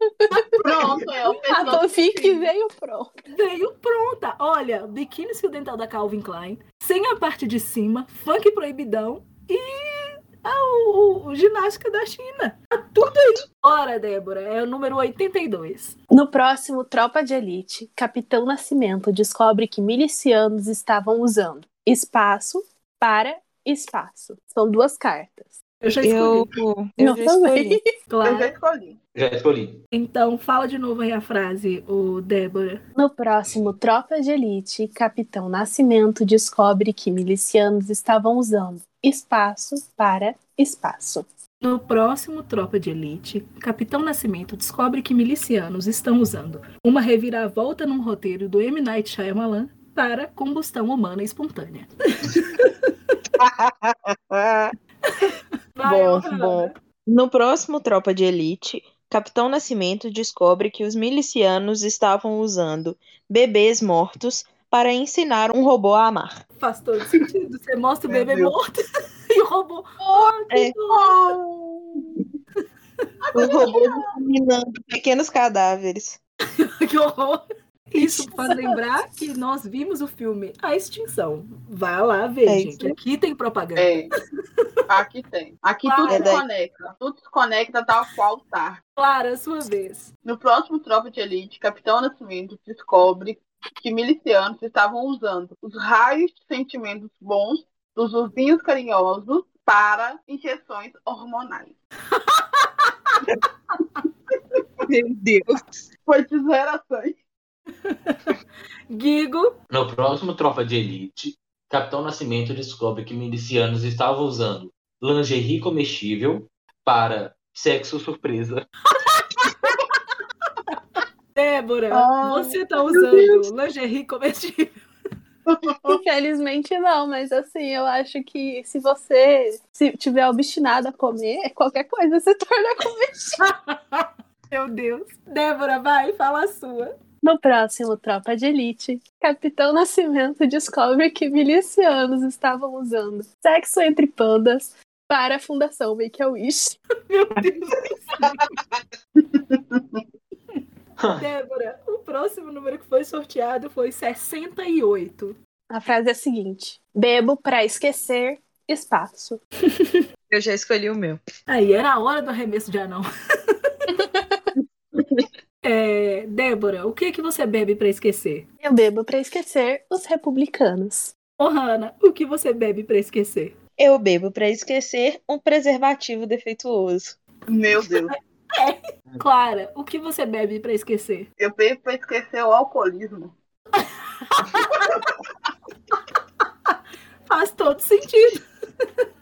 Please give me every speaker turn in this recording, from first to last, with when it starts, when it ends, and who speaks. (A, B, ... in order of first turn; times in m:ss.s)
0:00.2-0:00.6 A
0:00.3-0:01.8 B
0:00.6-0:02.4 C
0:01.3-0:03.1 A
0:03.3-0:16.0 B
0:16.1-0:25.6 A
0:25.8-0:26.5 B
0:26.0-0:27.8 D
0:27.0-0:27.9 A
0:28.1-0:28.5 B
0:28.2-0:29.0 C
0:29.2-0:29.8 E
0:29.9-0:32.8 B
0:33.0-0:41.3 A
0:41.6-0:52.8 B
0:53.4-0:54.7 D
0:55.1-0:56.8 B
0:55.8-1:06.4 D
1:06.6-1:11.3 B
1:08.1-1:08.5 C
1:10.5-1:10.8 D
1:10.9-1:11.8 C
1:13.2-1:14.1 C
1:13.3-1:16.2 D
1:16.6-1:24.0 B
1:18.0-1:18.8 A
1:22.5-1:23.0 D
1:23.8-1:24.1 C
1:24.9-1:28.8 C
1:25.8-1:26.4 B
1:26.1-1:26.4 D
1:29.0-1:30.1 B
1:30.2-1:41.8 C
1:42.1-1:43.2 B
1:44.9-1:45.8 D
1:46.1-1:47.2 C
1:47.8-1:48.4 B
1:48.9-1:49.5 B
1:49.7-1:58.6 E
1:58.9-1:59.8 B
2:01.4-2:04.8 B
2:01.9-2:03.4 C
2:05.5-2:06.0 C
2:05.9-2:13.4 A
2:13.4-2:17.0 B
2:17.2-2:26.8 A
2:27.1-2:28.5 B
2:29.2-2:30.0 C
2:31.0-2:31.3 E
2:31.2-2:35.4 B
2:35.7-2:39.4 A
2:39.7-2:40.0 B
2:40.3-2:41.2 D
2:41.5-2:43.9 B
2:44.0-2:44.4 A
2:45.6-2:48.5 B
2:48.6-2:51.1 A
2:51.4-2:53.6 B
2:53.8-2:57.2 D
2:57.5-2:58.1 C
2:58.1-3:01.3 B
3:01.4-3:03.3 C
3:03.8-3:05.0 B
3:07.3-3:08.4 B